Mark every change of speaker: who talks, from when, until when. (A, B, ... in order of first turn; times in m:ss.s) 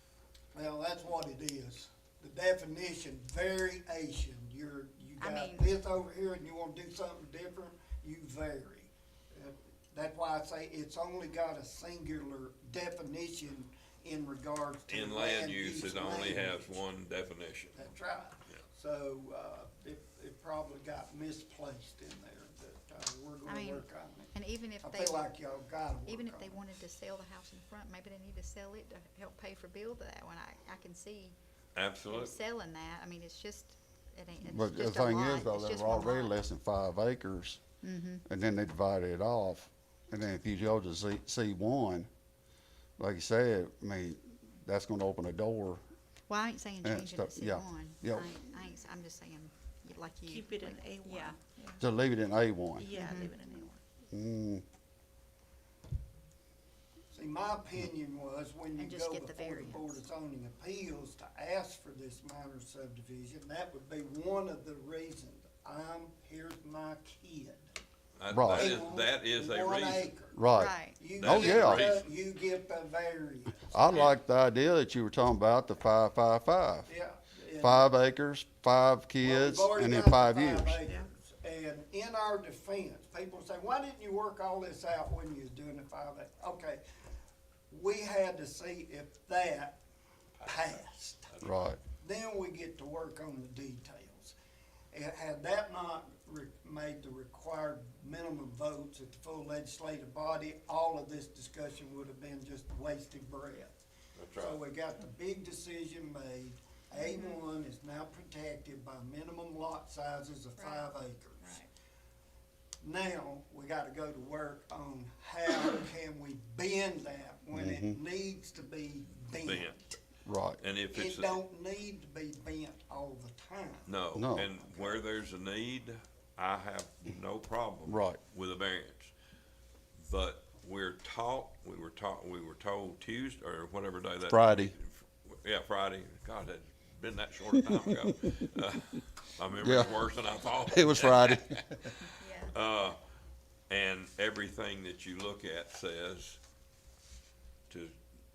0:00.5-0:16.8 A
0:05.2-0:05.7 B
0:14.9-0:17.8 C
0:17.7-0:24.3 A
0:23.4-0:25.3 B
0:24.8-0:26.7 A
0:26.0-0:31.4 B
0:31.7-0:32.3 C
0:32.0-0:36.3 B
0:34.4-0:37.6 D
0:37.8-0:38.2 B
0:38.2-0:42.1 D
0:43.0-0:45.8 D
0:46.3-0:51.8 B
0:46.8-0:48.3 D
0:50.2-0:51.8 E
0:51.8-0:52.9 D
0:52.7-0:53.8 E
0:52.9-0:53.4 B
0:54.1-0:54.6 D
0:57.1-1:07.7 A
0:58.8-1:00.0 B
1:08.2-1:10.1 C
1:08.3-1:08.8 D
1:08.5-1:10.4 A
1:10.3-1:11.9 D
1:10.5-1:11.0 B
1:11.0-1:14.1 A
1:11.2-1:12.1 C
1:13.7-1:16.9 D
1:16.9-1:17.9 A
1:17.6-1:20.8 D
1:19.2-1:26.8 A
1:20.8-1:21.1 E
1:27.7-1:29.8 A
1:30.4-1:30.7 C
1:30.4-1:31.3 A
1:31.3-1:31.7 C
1:31.4-1:31.8 D
1:32.0-1:34.3 A
1:34.9-1:43.7 A
1:44.2-1:44.6 C
1:44.4-1:51.6 A
1:46.9-1:47.4 B
1:50.6-1:51.7 B
1:52.8-1:59.8 A
1:57.5-1:58.0 D
1:59.3-2:00.0 C
2:00.2-2:00.6 D
2:00.6-2:01.4 C
2:00.9-2:03.9 A
2:03.8-2:09.1 C
2:04.1-2:04.5 D
2:07.9-2:08.2 D
2:10.0-2:21.7 C
2:14.3-2:14.7 D
2:17.6-2:18.3 D
2:19.6-2:20.0 D
2:20.7-2:21.9 D
2:22.2-2:22.5 B
2:22.4-2:23.0 C
2:23.7-2:26.4 C
2:27.7-2:27.9 C